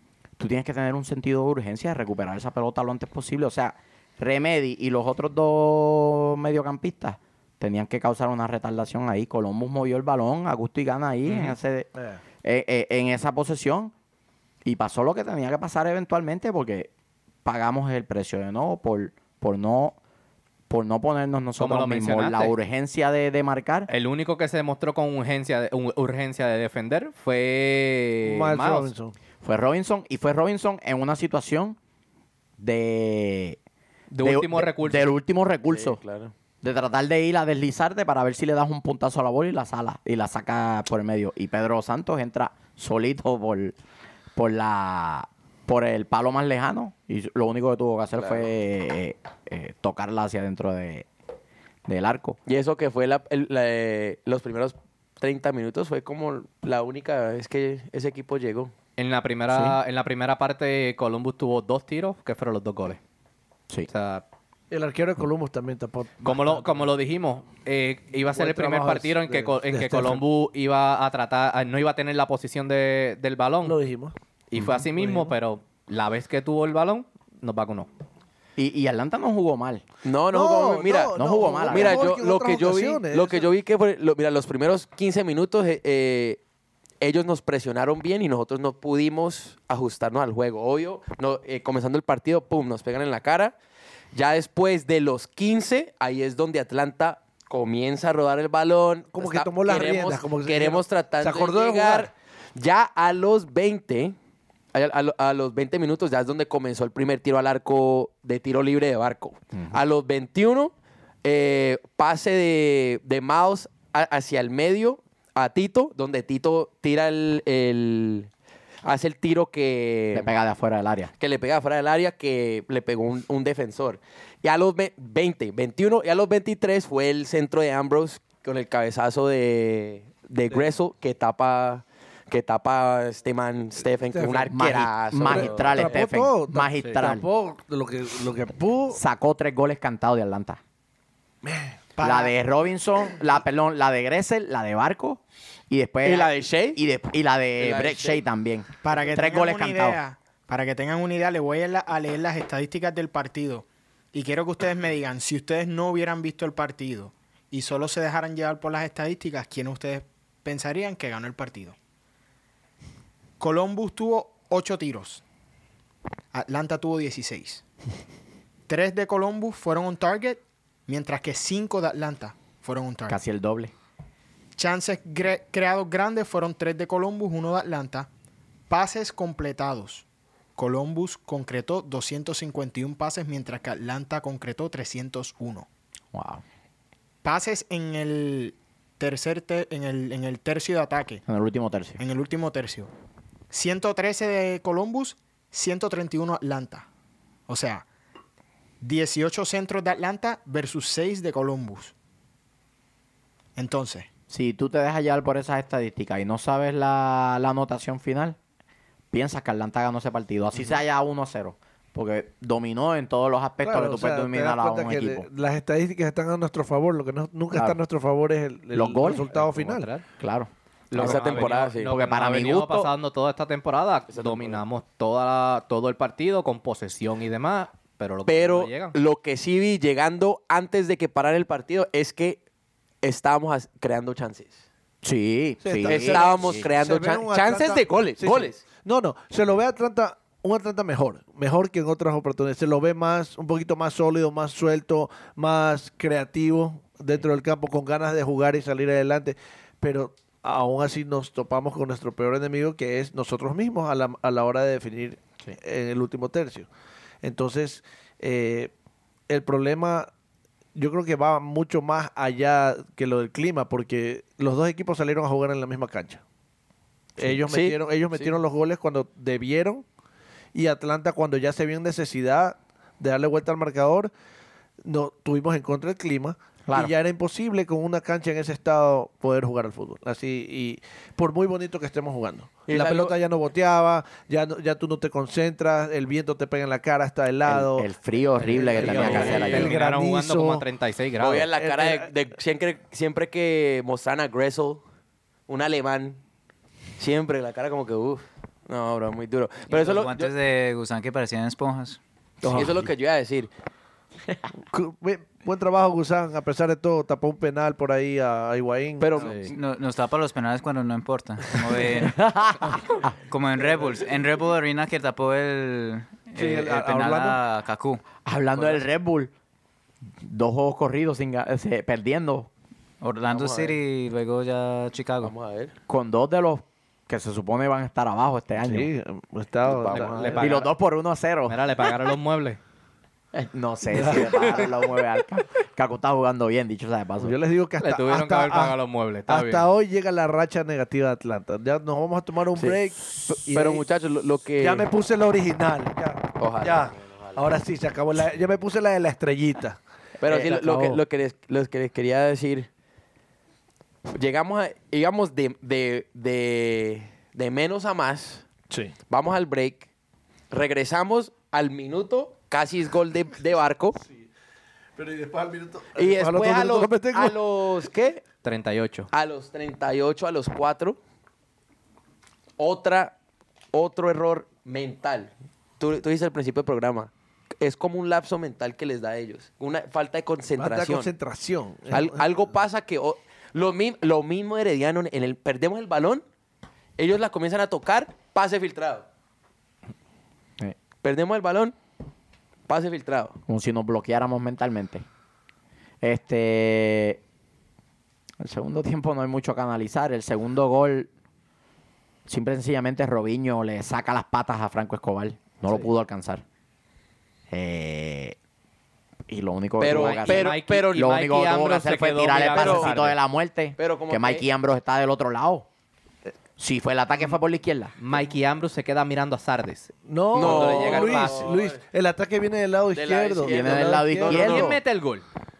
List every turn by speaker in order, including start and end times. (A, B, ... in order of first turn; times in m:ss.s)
0:00.4-0:11.9 A
0:11.3-0:11.6 B
0:12.0-0:12.2 C
0:12.4-0:13.9 A
0:14.6-0:16.9 A
0:17.4-0:20.0 A
0:20.7-0:23.9 A
0:21.6-0:22.5 B
0:23.9-0:28.9 B
0:28.2-0:29.1 C
0:29.4-0:31.8 A
0:32.6-0:33.6 A
0:34.1-0:35.1 B
0:34.2-0:36.0 A
0:35.7-0:36.3 D
0:36.6-0:43.8 A
0:44.4-0:51.1 A
0:48.2-0:48.5 D
0:51.9-0:52.4 A
0:52.5-0:58.7 D
0:59.0-1:03.0 B
0:59.5-0:59.8 A
1:03.9-1:04.2 B
1:04.7-1:06.8 C
1:06.2-1:13.8 B
1:08.3-1:10.2 C
1:13.6-1:15.3 C
1:14.5-1:17.9 B
1:18.6-1:19.8 A
1:20.0-1:21.2 D
1:20.3-1:23.5 C
1:21.2-1:22.1 A
1:21.7-1:26.4 D
1:27.0-1:33.6 D
1:34.1-1:44.2 D
1:39.1-1:42.1 C
1:44.7-1:50.7 D
1:51.2-1:58.3 D
1:58.8-2:00.3 D
2:00.1-2:01.1 A
2:01.2-2:15.9 D
2:14.1-2:19.0 C
2:14.5-2:17.2 A
2:18.9-2:20.6 A
2:21.4-2:21.8 C
2:22.0-2:22.3 E
2:22.0-2:30.0 A
2:26.0-2:26.8 D
2:27.6-2:28.2 D
2:28.8-2:41.8 E
2:43.4-2:45.2 E
2:46.3-2:47.6 E
2:48.7-2:53.2 E
2:53.1-2:53.7 A
2:54.6-2:58.1 E
2:58.7-3:00.1 E
3:00.6-3:05.7 E
3:06.1-3:06.4 A
3:07.2-3:11.2 E
3:11.3-3:12.0 A
3:12.0-3:12.9 E
3:13.5-3:16.9 E
3:17.5-3:17.9 E
3:18.8-3:21.9 E
3:23.6-3:24.1 E
3:24.3-3:28.4 A
3:29.1-3:35.3 A
3:33.6-3:39.9 C
3:37.5-3:37.8 A
3:38.7-3:39.2 A
3:39.3-3:40.0 B
3:40.2-3:42.9 A
3:40.9-3:48.9 B
3:40.9-3:42.1 D
3:44.1-3:44.6 D
3:48.3-3:52.4 D
3:53.0-3:54.6 D
3:55.0-3:56.6 A
3:55.6-4:16.7 C
3:55.9-3:58.6 D
4:17.2-4:18.7 C
4:19.3-4:20.1 C
4:20.8-4:26.2 C
4:27.2-4:29.8 C
4:27.5-4:28.4 D
4:30.5-4:34.1 C
4:34.8-4:47.9 C
4:36.7-4:36.9 A
4:42.7-4:43.2 D
4:47.4-4:49.8 A
4:48.5-4:50.7 C
4:48.5-4:49.7 D
4:48.9-4:51.5 B
4:51.2-4:54.8 D
4:51.5-4:52.1 C
4:55.5-4:56.2 D
4:57.0-5:00.3 D
4:59.7-5:02.0 F
5:02.4-5:02.8 C
5:02.5-5:03.5 D
5:04.7-5:09.4 C
5:09.0-5:09.5 D
5:09.5-5:12.2 F
5:12.1-5:12.8 A
5:13.2-5:18.0 F
5:16.4-5:17.4 C
5:18.2-5:19.3 A
5:20.2-5:22.5 A
5:23.0-5:25.4 F
5:23.3-5:23.8 D
5:25.2-5:25.8 D
5:25.9-5:28.9 A
5:28.6-5:30.7 C
5:29.6-5:30.4 D
5:29.9-5:30.7 B
5:30.4-5:31.6 A
5:31.5-5:32.6 B
5:33.3-5:37.4 A
5:33.9-5:34.7 C
5:37.2-5:38.8 C
5:37.8-5:39.7 B
5:39.3-5:43.8 C
5:43.4-5:44.9 D
5:44.6-5:51.0 C
5:46.4-5:47.4 D
5:50.2-5:52.7 D
5:54.1-5:58.5 D
5:58.7-5:59.0 C
5:59.1-5:59.9 D
6:00.5-6:04.0 D
6:05.0-6:07.4 C
6:06.0-6:08.2 D
6:08.4-6:09.1 B
6:09.1-6:11.0 D
6:12.6-6:13.2 D
6:13.7-6:21.1 D
6:20.6-6:22.2 C
6:21.9-6:26.2 D
6:27.0-6:29.1 D
6:31.0-6:31.8 D
6:32.7-6:33.4 D
6:33.5-6:35.0 A
6:36.0-6:37.2 A
6:38.4-6:41.1 A
6:42.3-6:46.4 A
6:47.5-6:48.4 A
6:49.3-6:55.7 A
6:49.8-6:51.1 D
6:49.9-6:53.2 B
6:52.4-6:53.0 D
6:53.8-6:54.4 D
6:56.6-6:57.9 A
6:58.0-7:01.5 B
7:00.0-7:04.8 C
7:00.3-7:01.8 D
7:02.9-7:04.8 D
7:03.4-7:04.8 A
7:04.3-7:05.2 B